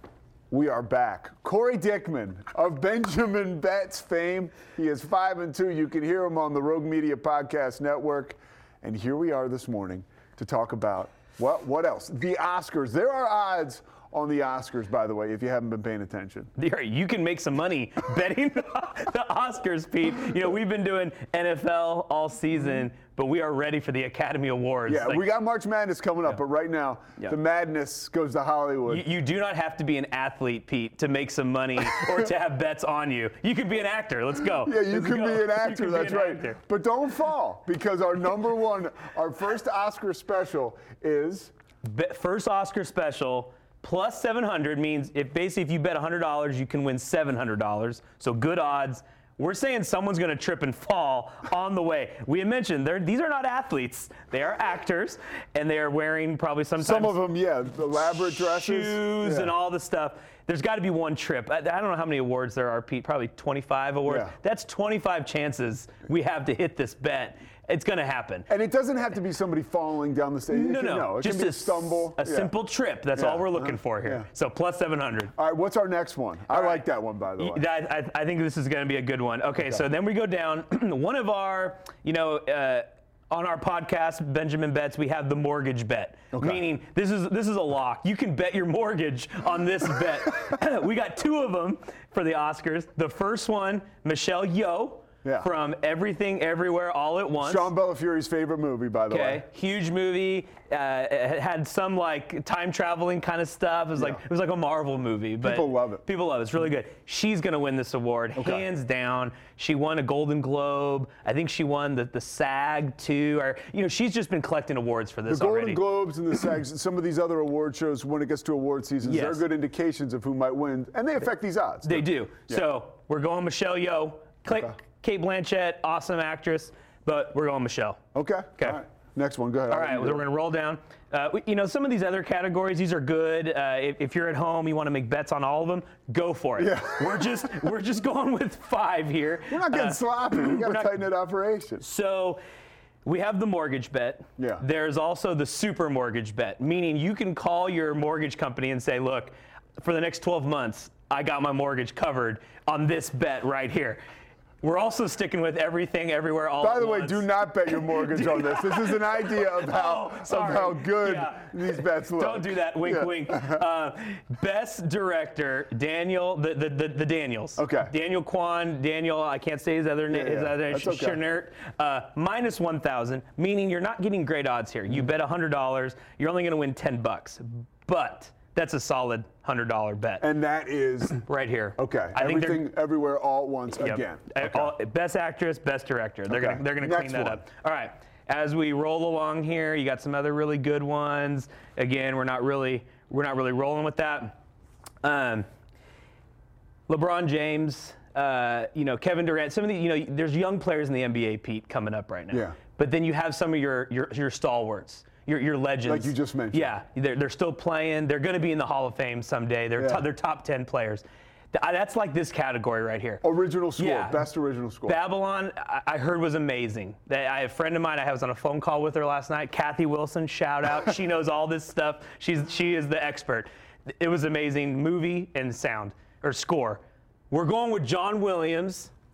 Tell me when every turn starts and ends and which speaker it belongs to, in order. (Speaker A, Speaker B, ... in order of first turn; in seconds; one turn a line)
Speaker A: 0.5-16.5
Speaker B: 16.6-25.2
Speaker A: 24.9-29.1
Speaker B: 28.9-36.6
Speaker A: 31.8-32.3
Speaker A: 34.5-41.5
Speaker B: 41.8-57.2
Speaker A: 56.8-59.5
Speaker B: 58.1-68.5
Speaker A: 64.0-64.3
Speaker A: 68.5-72.6
Speaker B: 70.5-75.3
Speaker A: 73.1-74.3
Speaker A: 75.3-77.7
Speaker B: 76.5-76.8
Speaker B: 77.4-97.7
Speaker A: 86.3-86.7
Speaker A: 95.2-95.5
Speaker A: 97.4-99.4
Speaker B: 99.1-115.8
Speaker A: 104.0-104.2
Speaker A: 105.4-106.0
Speaker A: 108.3-108.7
Speaker A: 115.3-122.7
Speaker B: 119.1-119.5
Speaker B: 121.8-128.0
Speaker A: 124.5-124.7
Speaker A: 128.1-130.2
Speaker B: 129.7-140.9
Speaker A: 136.6-137.6
Speaker A: 139.5-141.8
Speaker B: 141.8-142.4
Speaker B: 143.0-154.0
Speaker A: 144.4-144.6
Speaker B: 154.6-180.3
Speaker A: 156.6-163.7
Speaker A: 167.6-167.9
Speaker A: 170.1-171.2
Speaker A: 180.2-181.2
Speaker B: 181.2-182.7
Speaker A: 181.8-184.7
Speaker B: 183.7-194.4
Speaker A: 186.3-187.5
Speaker B: 195.0-195.5
Speaker B: 196.9-213.2
Speaker A: 202.3-202.6
Speaker A: 205.8-206.7
Speaker A: 209.8-210.1
Speaker A: 213.2-215.0
Speaker B: 213.8-214.2
Speaker B: 214.8-228.9